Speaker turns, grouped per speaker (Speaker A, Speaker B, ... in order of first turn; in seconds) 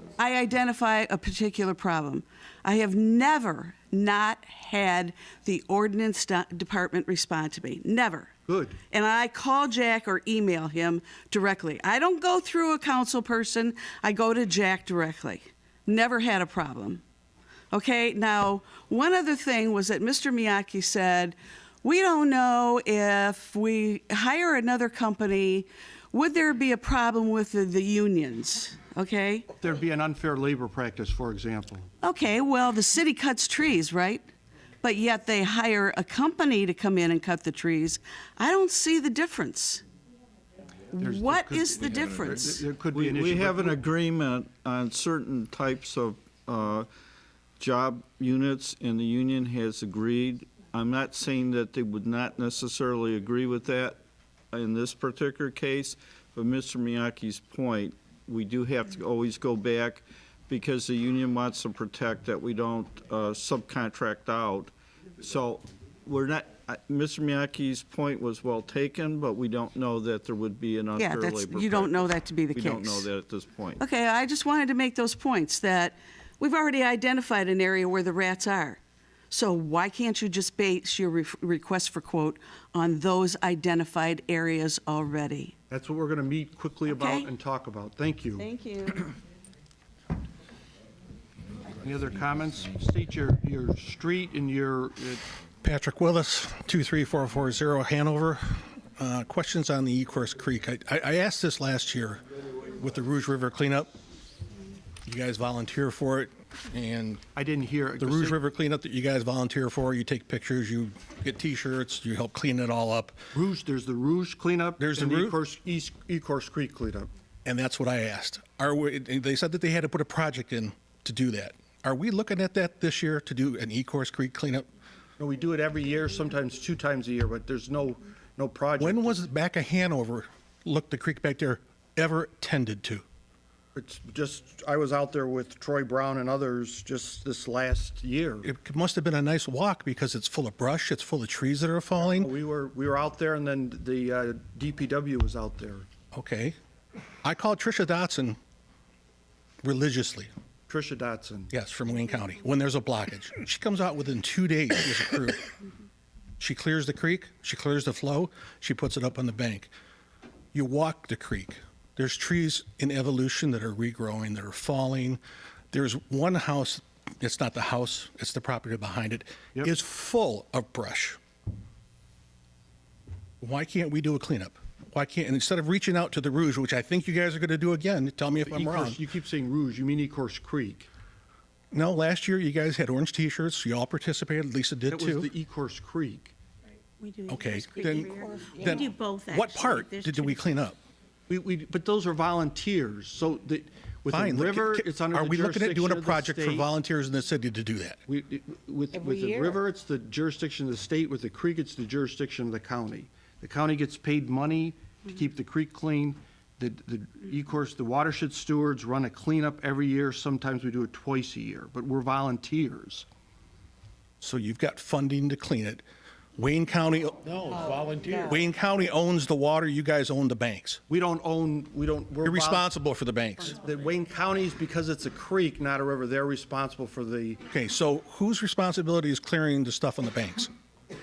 Speaker A: 0.2-8.3, 8.9-17.0, 17.7-29.5, 32.0-34.3, 34.8-39.8, 40.9-42.6, 71.0-73.1, 73.8-78.8, 79.3-85.5, 86.9-87.3, 88.4-89.1
Speaker B: 8.5-8.8, 29.6-31.9, 41.0-43.8, 85.7-88.5, 91.8-95.2, 107.3-108.4, 113.3-117.1, 125.2-129.2, 133.8-138.5, 142.0-145.9, 150.7-151.5, 178.5-180.9, 184.9-186.3, 191.3-196.7, 198.1-213.1, 220.9-222.7, 223.6-227.4
Speaker C: 41.9-42.4, 42.9-46.9, 47.6-73.8
Speaker D: 95.6-103.9, 105.1-107.2, 108.0-113.2, 114.8-115.4, 117.5-124.7, 128.8-133.0, 138.4-142.3, 146.1-146.6, 147.2-148.4, 149.6-150.3, 151.5-155.5, 156.4-159.7, 160.5-165.2, 165.7-171.2, 173.4-179.0, 181.7-185.3, 187.3-190.8, 194.1-198.0, 214.2-215.8, 216.4-217.6, 218.2-220.8, 222.2-223.6, 227.5-230.5
Speaker E: 187.0-190.5, 199.0-199.5